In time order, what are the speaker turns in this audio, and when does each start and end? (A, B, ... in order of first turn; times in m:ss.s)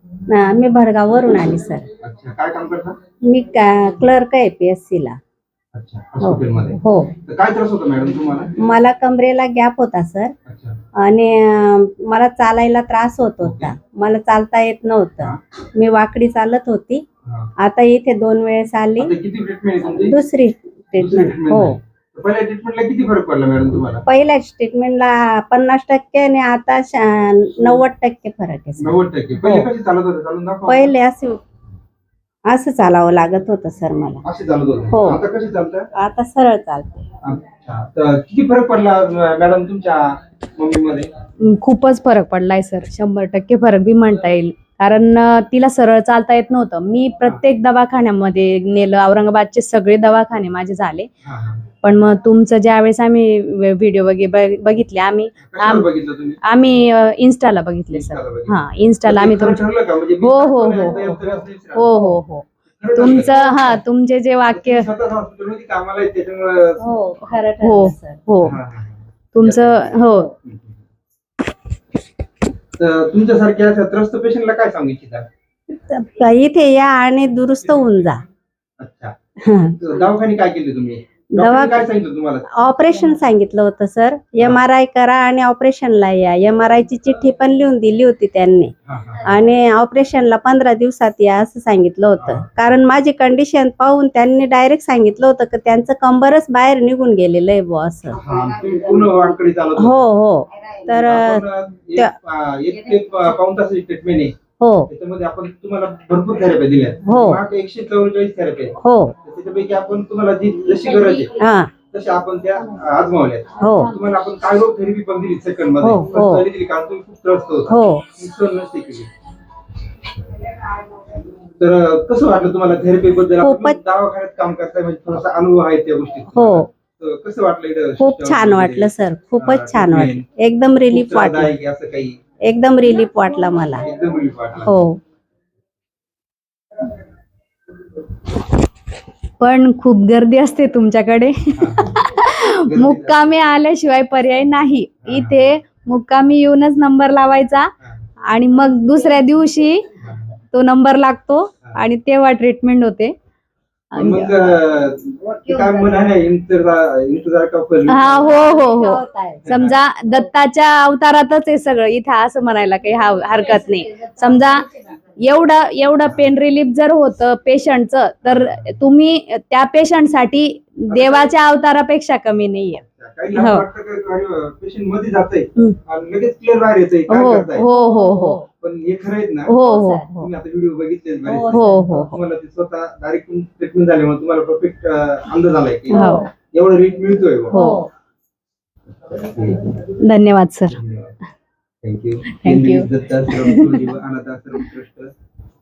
0:00.3-0:01.9 A
0:02.0-0:03.0 B
0:03.3-0:05.2 A
0:05.7-0:08.5 B
0:06.2-0:07.1 A
0:08.6-0:10.3 A
0:10.4-0:10.8 B
0:11.0-0:17.0 A
0:13.4-0:13.7 B
0:17.6-0:19.1 A
0:19.0-0:20.1 B
0:19.8-0:21.8 A
0:21.0-0:24.0 B
0:24.1-0:29.7 A
0:28.8-0:30.9 B
0:30.7-0:31.4 A
0:32.5-0:34.2 A
0:34.2-0:35.9 B
0:34.9-0:35.2 A
0:36.0-0:37.0 A
0:37.2-0:41.1 B
0:41.4-0:51.1 C
0:51.2-0:51.7 B
0:51.8-0:55.9 C
0:55.4-0:56.4 B
0:56.4-0:59.6 C
0:57.9-1:02.1 B
1:00.2-1:01.2 C
1:01.0-1:01.4 A
1:01.7-1:04.9 C
1:02.8-1:03.3 B
1:03.0-1:03.8 A
1:04.5-1:06.8 B
1:06.8-1:08.2 A
1:07.6-1:08.6 C
1:08.4-1:10.8 B
1:09.3-1:10.3 C
1:12.8-1:15.2 B
1:15.7-1:18.2 A
1:17.7-1:18.1 B
1:18.8-1:19.1 B
1:19.4-1:19.8 A
1:19.8-1:22.5 B
1:21.3-1:21.9 A
1:22.5-1:38.2 A
1:28.8-1:29.3 B
1:32.2-1:32.5 B
1:38.2-1:40.0 B
1:39.8-1:41.4 A
1:40.9-1:44.3 B
1:44.6-1:44.9 A
1:44.9-1:51.4 B
1:47.0-1:47.4 A
1:48.8-1:49.1 A
1:51.4-1:51.7 A
1:51.9-1:59.1 B
1:53.6-1:53.9 A
1:55.8-1:56.4 A
1:57.7-1:58.0 A
2:01.6-2:10.3 B
2:03.4-2:03.8 A
2:06.3-2:06.7 A
2:08.0-2:11.5 A
2:10.9-2:12.2 B
2:12.4-2:13.8 A
2:13.8-2:14.7 B
2:14.6-2:15.0 A
2:19.4-2:27.7 C
2:21.6-2:22.0 B
2:22.7-2:23.3 B
2:25.0-2:25.5 B
2:28.3-2:29.9 C
2:30.0-2:30.3 B
2:30.5-2:33.1 C
2:33.9-2:34.6 C
2:34.0-2:38.3 B
2:35.2-2:36.0 A
2:37.9-2:52.8 C
2:38.2-2:39.5 A
2:39.4-2:39.8 B
2:48.2-2:48.8 B
2:50.9-2:51.3 B
2:52.8-2:57.7 B
2:53.3-2:53.6 C
2:57.1-2:58.4 C
2:57.7-2:58.5 A
2:58.6-2:59.6 B
2:59.5-3:00.3 C
2:59.6-3:00.1 A
3:00.2-3:07.6 B
3:01.2-3:01.8 A
3:01.4-3:02.2 C
3:05.9-3:06.3 A
3:05.9-3:06.2 C
3:07.5-3:07.8 C
3:07.5-3:07.9 A
3:09.1-3:09.8 B
3:10.0-3:10.8 C
3:10.7-3:11.2 B
3:11.8-3:15.1 B
3:12.4-3:13.9 C